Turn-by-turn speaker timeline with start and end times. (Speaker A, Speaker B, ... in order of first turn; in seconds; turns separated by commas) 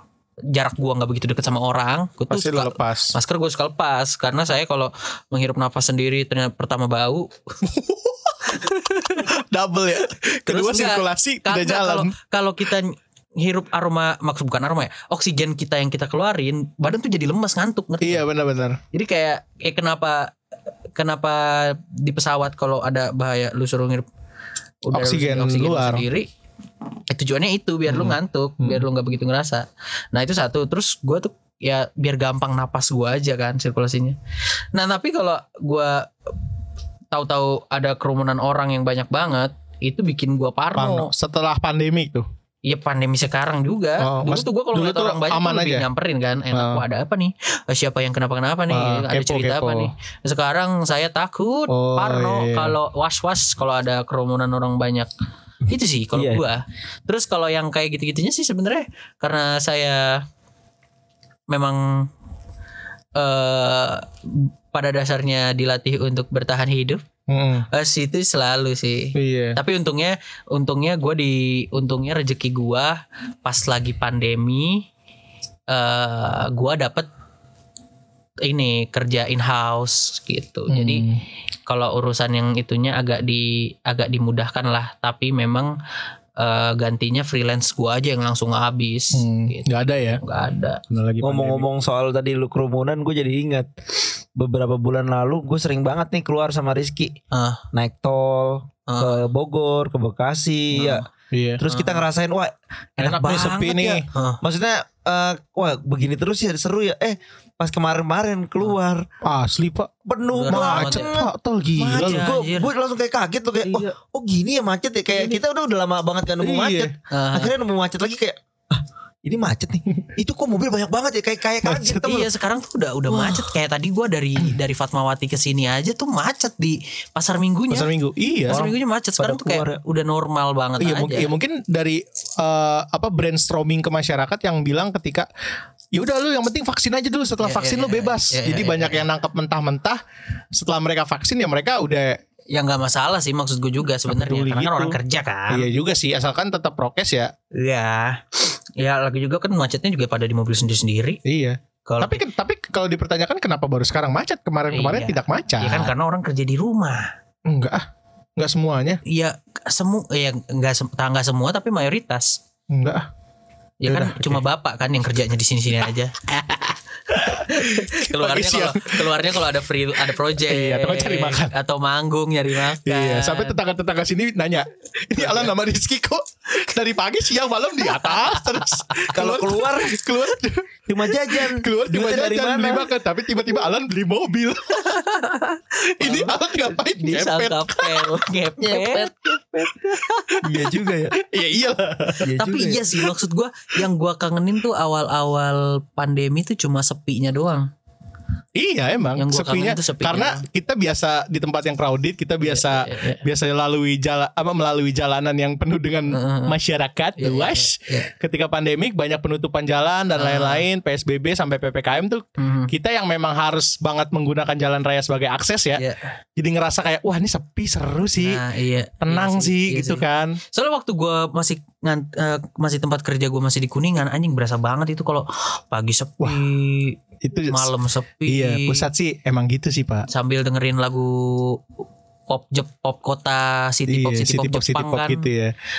Speaker A: 0.5-7.3, Speaker B: 2.3-3.1, Speaker B: 7.6-8.6, Speaker A: 8.5-9.3, Speaker B: 9.1-12.1, Speaker A: 10.4-18.2, Speaker B: 18.0-18.8, Speaker A: 18.9-20.3, Speaker A: 20.9-24.0, Speaker A: 24.8-26.3, Speaker B: 24.9-26.0, Speaker A: 27.1-34.2, Speaker B: 27.9-28.8, Speaker A: 34.7-36.1, Speaker A: 37.1-41.1, Speaker B: 40.7-42.2, Speaker A: 42.6-55.1, Speaker B: 44.0-45.9, Speaker B: 46.5-46.8, Speaker B: 48.7-49.9, Speaker B: 51.7-52.8, Speaker A: 55.7-60.2, Speaker C: 56.1-56.4, Speaker A: 61.5-62.1, Speaker A: 63.1-67.0, Speaker B: 67.3-67.7, Speaker A: 67.7-74.9, Speaker B: 69.1-69.6, Speaker A: 75.7-77.1, Speaker A: 78.4-81.0, Speaker B: 80.7-81.2, Speaker A: 81.7-85.7, Speaker A: 86.4-90.8, Speaker B: 89.1-90.2, Speaker B: 90.9-91.7, Speaker C: 91.2-93.7, Speaker C: 94.3-97.2, Speaker A: 97.3-97.6, Speaker C: 97.7-101.0, Speaker A: 98.9-99.2, Speaker A: 100.7-101.1, Speaker B: 101.3-101.6, Speaker C: 101.6-109.0, Speaker A: 101.7-102.0, Speaker B: 103.0-104.1, Speaker A: 104.1-104.4, Speaker B: 109.2-109.9, Speaker C: 110.0-122.3, Speaker A: 110.3-111.1, Speaker B: 110.5-112.3, Speaker A: 111.9-112.7, Speaker B: 116.4-116.9, Speaker A: 117.1-117.5, Speaker B: 121.6-122.1, Speaker A: 122.0-127.9, Speaker C: 123.1-123.4, Speaker B: 127.7-128.6, Speaker A: 128.5-131.3, Speaker C: 128.5-129.8, Speaker B: 130.8-135.3, Speaker B: 135.9-140.0, Speaker A: 137.4-139.1, Speaker B: 140.5-142.2, Speaker A: 142.5-145.7, Speaker B: 144.1-145.0, Speaker B: 145.5-147.3, Speaker A: 147.5-151.2, Speaker B: 151.2-155.9, Speaker A: 151.8-152.2, Speaker A: 154.7-157.1, Speaker B: 157.4-157.8, Speaker B: 158.4-159.0, Speaker A: 159.0-162.4, Speaker B: 162.7-163.1, Speaker A: 163.8-173.6, Speaker B: 163.9-164.4, Speaker B: 167.1-169.5, Speaker B: 170.1-171.5, Speaker B: 172.8-185.0, Speaker A: 175.2-175.5, Speaker A: 177.9-179.1, Speaker C: 179.1-180.0, Speaker C: 180.9-182.9, Speaker A: 184.7-189.1, Speaker B: 186.0-188.2, Speaker C: 188.6-189.8, Speaker A: 189.8-190.4, Speaker C: 190.4-191.2, Speaker B: 191.1-192.3, Speaker C: 192.2-192.8, Speaker A: 192.3-197.7, Speaker B: 198.6-215.8, Speaker A: 199.2-200.4, Speaker A: 202.4-203.2, Speaker A: 206.1-206.5, Speaker A: 207.2-208.1, Speaker A: 210.1-210.7, Speaker A: 212.4-212.7, Speaker A: 215.8-216.0, Speaker B: 216.4-218.4, Speaker A: 218.2-227.0, Speaker B: 219.0-220.4, Speaker B: 227.2-227.7, Speaker A: 227.5-228.8, Speaker B: 228.3-230.1, Speaker A: 230.1-231.6, Speaker A: 232.3-235.3, Speaker B: 233.9-235.5